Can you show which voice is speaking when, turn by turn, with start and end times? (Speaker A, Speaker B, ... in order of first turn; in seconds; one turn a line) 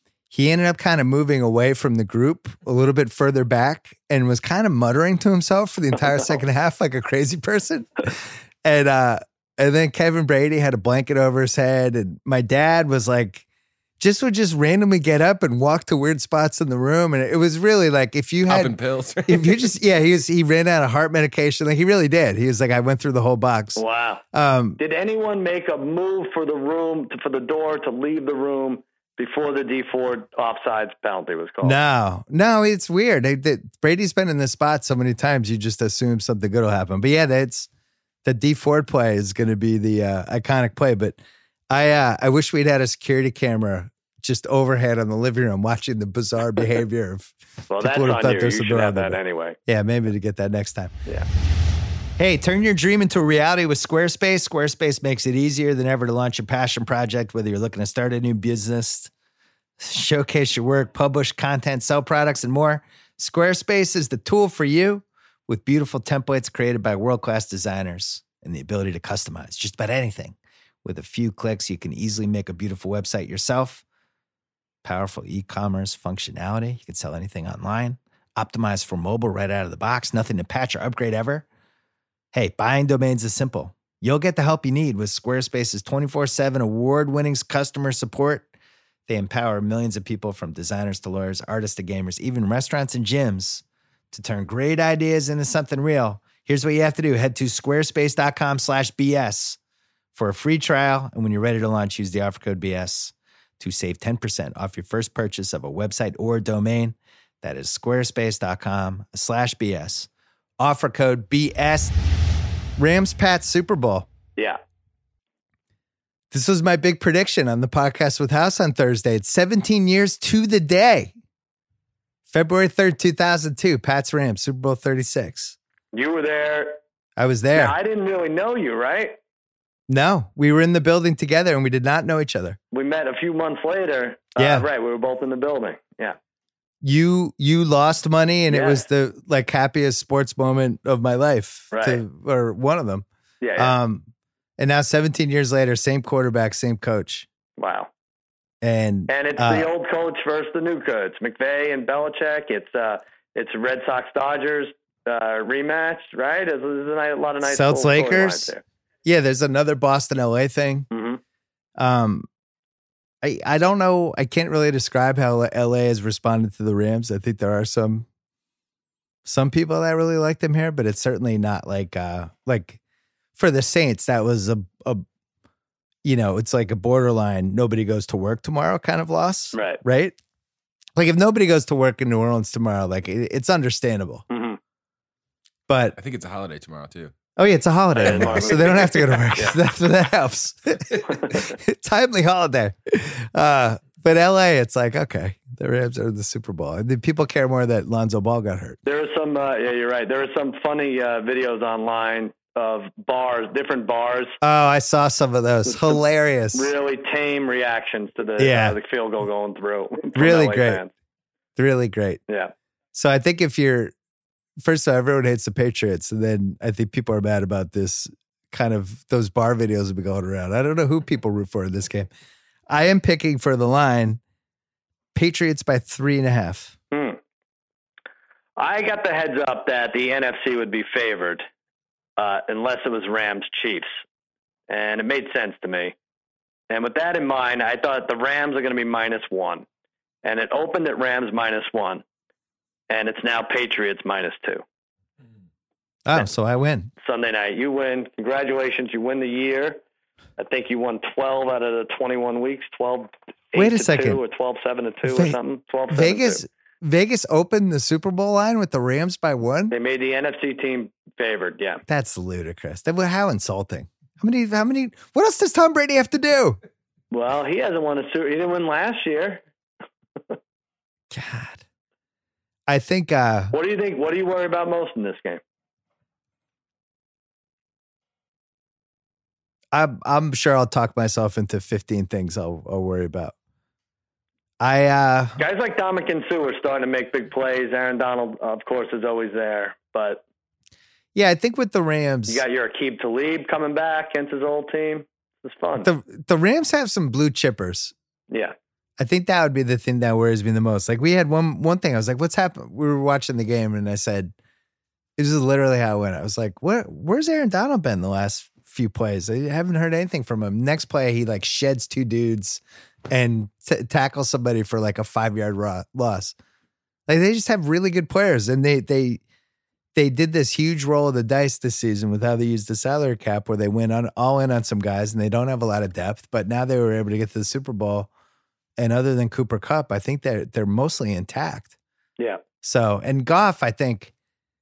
Speaker A: 0.3-13.4
Speaker A: 14.0-18.7
Speaker B: 18.5-19.7
Speaker A: 19.3-23.8
Speaker C: 23.8-24.2
Speaker A: 24.3-24.8
Speaker C: 24.8-31.8
Speaker A: 31.6-37.7
Speaker A: 38.2-50.9
Speaker C: 47.7-49.6
Speaker A: 52.2-59.1
Speaker A: 59.8-73.8
Speaker A: 74.8-81.5
Speaker A: 82.3-88.5
Speaker A: 89.1-99.6
Speaker A: 100.1-110.1
Speaker A: 110.6-112.0
Speaker A: 112.8-114.1
Speaker A: 116.3-121.1
Speaker A: 122.3-125.6
Speaker C: 125.9-126.8
Speaker A: 127.2-127.8
Speaker C: 127.5-129.2
Speaker A: 129.9-132.6
Speaker C: 132.7-136.2
Speaker A: 134.4-134.7
Speaker A: 136.8-144.1
Speaker C: 138.5-138.8
Speaker C: 141.7-142.0
Speaker C: 143.4-143.8
Speaker A: 144.6-147.3
Speaker C: 147.6-147.9
Speaker A: 148.6-149.7
Speaker C: 149.1-158.6
Speaker A: 157.4-158.5
Speaker A: 159.1-160.9
Speaker C: 160.9-161.2
Speaker A: 161.8-162.3
Speaker A: 163.2-168.1
Speaker A: 169.2-172.8
Speaker A: 173.4-175.1
Speaker A: 176.0-180.2
Speaker C: 179.5-179.8
Speaker A: 181.0-184.2
Speaker C: 184.3-184.6
Speaker A: 185.7-186.0
Speaker B: 186.0-187.1
Speaker A: 187.4-198.8
Speaker C: 187.9-189.6
Speaker B: 188.1-188.6
Speaker C: 191.1-191.5
Speaker C: 198.8-204.4
Speaker A: 204.4-206.7
Speaker C: 205.7-205.9
Speaker C: 206.5-210.9
Speaker A: 208.4-208.8
Speaker A: 210.2-210.8
Speaker A: 211.6-212.2
Speaker C: 212.3-212.5
Speaker A: 212.9-213.9
Speaker A: 214.6-222.1
Speaker A: 222.7-224.2
Speaker A: 225.2-226.8
Speaker C: 226.9-227.2
Speaker C: 228.6-231.5
Speaker C: 232.2-233.9
Speaker C: 234.7-235.9
Speaker C: 236.7-239.7
Speaker C: 240.2-242.0
Speaker C: 242.9-244.6
Speaker A: 246.1-246.9
Speaker C: 247.0-249.8
Speaker C: 250.4-256.4
Speaker A: 253.6-254.2
Speaker A: 255.1-255.4
Speaker A: 255.9-259.8
Speaker C: 259.7-261.8
Speaker A: 261.9-266.6
Speaker C: 267.1-269.4
Speaker A: 271.1-271.6
Speaker A: 272.7-273.6
Speaker C: 273.5-275.4
Speaker A: 279.7-283.3
Speaker A: 284.6-285.4
Speaker C: 285.4-290.2
Speaker A: 291.1-292.4
Speaker C: 292.3-295.9
Speaker A: 295.8-297.9
Speaker C: 298.3-298.6
Speaker A: 299.0-304.3
Speaker A: 305.2-316.4
Speaker A: 317.1-319.2
Speaker A: 320.0-328.1
Speaker A: 328.8-331.7
Speaker A: 332.6-334.1